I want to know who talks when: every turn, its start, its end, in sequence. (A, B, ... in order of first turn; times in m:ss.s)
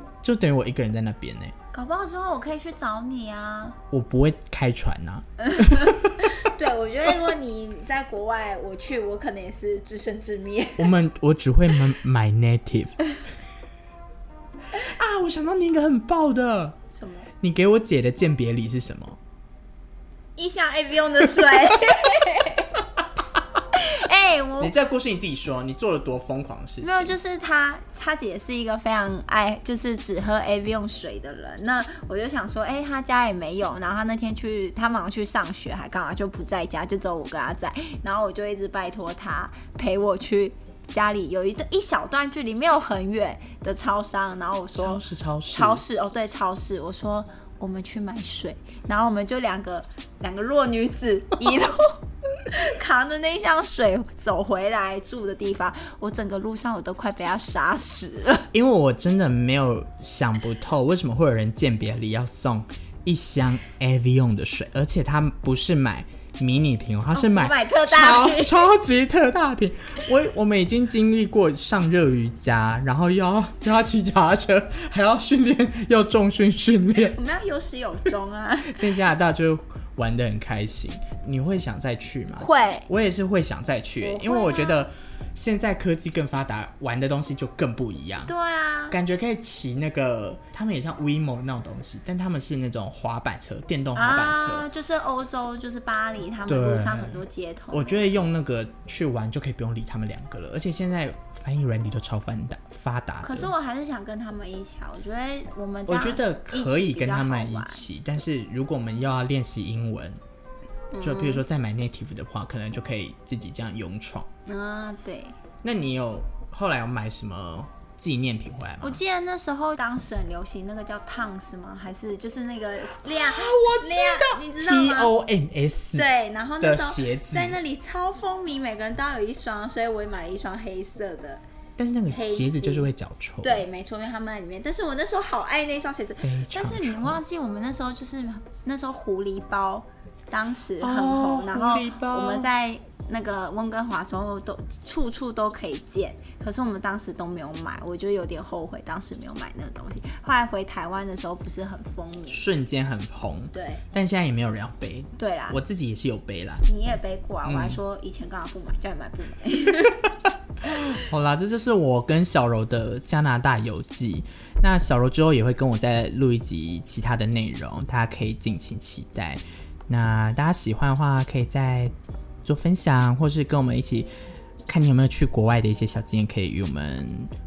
0:00.2-0:01.5 A
0:01.7-0:03.8 B
0:03.9-0:06.2 A
0:05.4-0:10.9 B
0:10.8-0:13.0 A
0:14.7-0:16.8 A
0:16.9-0:17.3 B
0:17.4-0:19.2 A
0:20.4-0:22.7 B
0:23.7-0:24.7 B
0:24.6-0:27.2 A
0:26.8-0:58.5 B
0:44.7-0:45.8 A
0:58.5-1:17.2 A
1:07.1-1:08.7 B
1:17.0-1:18.9 B
1:18.6-1:28.3 A
1:22.4-1:22.9 B
1:24.0-1:24.9 B
1:28.3-1:29.0 B
1:28.9-1:34.6 A
1:33.9-1:38.0 B
1:36.5-1:43.5 A
1:43.2-1:47.8 B
1:45.9-1:50.2 A
1:50.9-1:51.4 B
1:51.0-1:54.3 A
1:54.4-1:55.4 B
1:55.6-1:59.0 A
1:58.8-2:05.1 B
2:03.0-2:06.1 A
2:05.9-2:11.4 B
2:06.6-2:07.6 A
2:11.8-2:13.6 A
2:12.1-2:12.9 B
2:13.4-2:32.4 B
2:16.2-2:17.2 A
2:20.8-2:22.5 A
2:32.3-2:36.6 A
2:33.5-2:33.8 B
2:35.2-2:35.6 B
2:36.6-2:40.0 B
2:37.4-2:37.8 A
2:40.6-2:54.1 A
2:54.7-2:57.3 A